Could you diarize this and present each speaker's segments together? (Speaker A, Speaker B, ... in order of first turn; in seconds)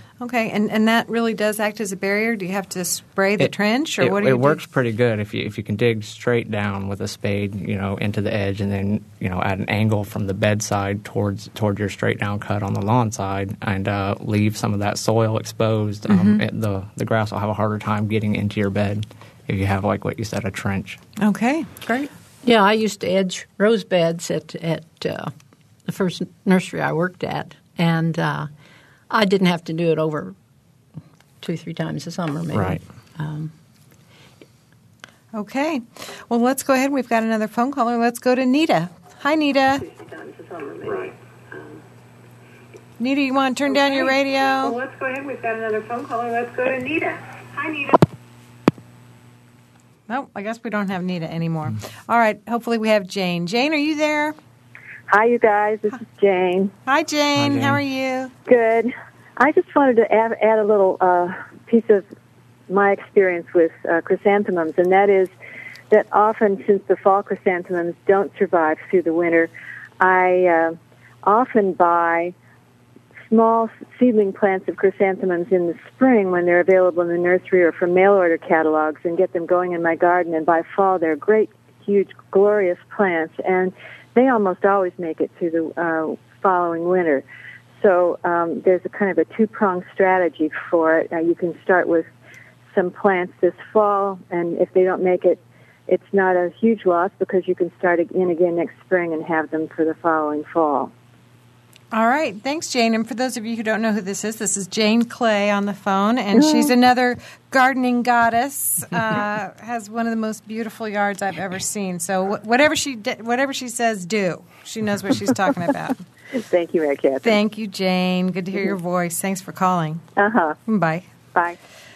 Speaker A: 0.2-4.6, 16.1-16.4, 21.2-22.1, 35.3-39.9, 43.0-44.8, 50.1-54.4, 56.9-58.3, 101.9-116.0, 117.2-120.0, 120.7-121.1
Speaker B: 3.4-21.0, 32.5-32.8, 57.4-57.8
Speaker C: 22.4-25.3, 25.9-28.5, 29.1-30.4, 31.4-33.5
Speaker D: 39.9-41.1, 43.7-48.0
Speaker E: 55.1-56.7, 58.5-62.0, 62.7-65.3, 65.9-72.3, 73.3-87.2, 87.8-92.1, 92.8-100.9, 106.3-106.7, 116.3-117.4, 120.2-120.6